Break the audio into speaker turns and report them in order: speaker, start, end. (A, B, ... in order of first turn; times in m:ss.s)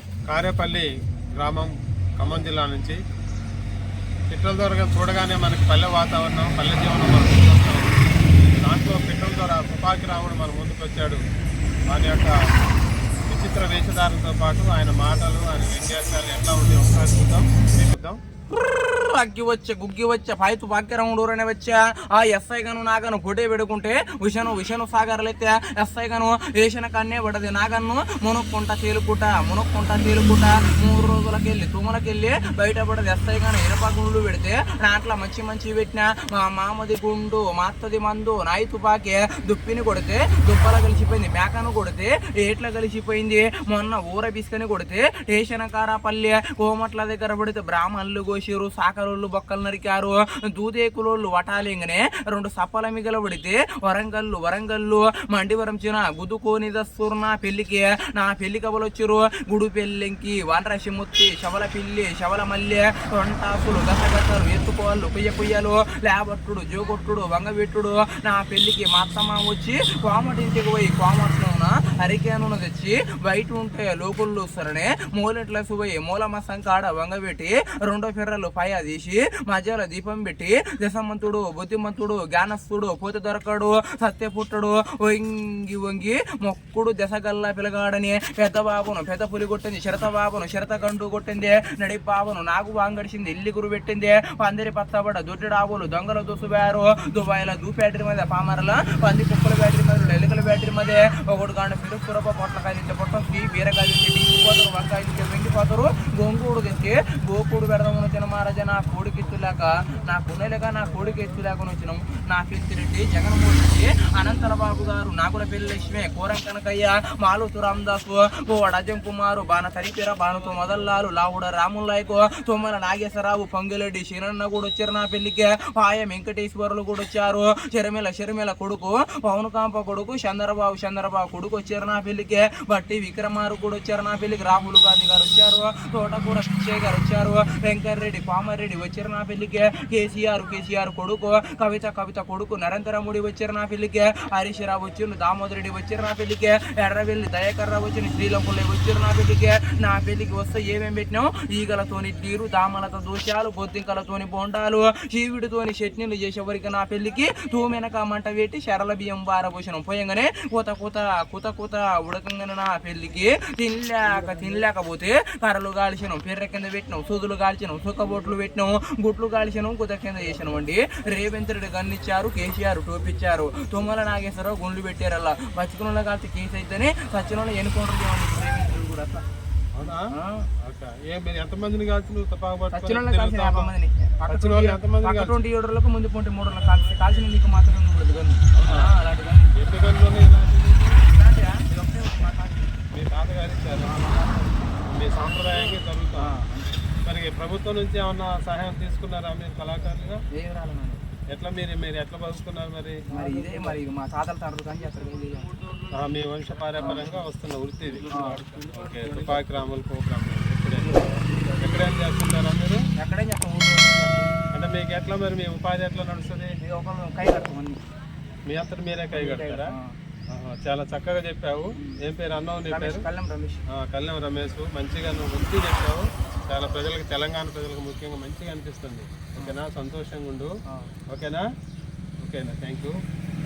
0:00.3-0:00.9 A
0:01.4-0:03.0 A
0:04.3-0:08.0 A
0:08.6-0:11.2 A
0:11.9-0:12.3 A
0:13.3-0:18.2 A
0:18.8-2:59.2 B
2:59.8-3:00.1 A
3:00.1-3:00.5 B
3:00.6-3:03.7 A
3:02.7-3:09.6 B
3:04.2-3:05.4 A
3:08.5-3:08.9 A
3:09.6-3:11.0 A
3:11.1-3:12.8 B
3:12.9-3:14.0 A
3:13.8-3:14.8 B
3:14.9-3:16.4 A
3:16.2-3:16.8 B
3:17.0-3:20.2 A
3:20.3-3:21.0 B
3:21.3-3:23.0 A
3:23.1-3:25.5 B
3:25.9-3:32.8 A
3:26.8-3:27.1 B
3:28.1-3:28.4 B
3:33.0-3:34.2 B
3:34.5-3:36.5 A
3:36.6-3:37.8 B
3:38.5-3:39.7 A
3:39.1-3:39.9 B
3:40.3-3:43.1 A
3:42.7-3:43.6 B
3:43.7-3:50.5 A
3:50.7-3:50.9 B
3:51.1-3:51.5 A
3:52.2-3:53.0 A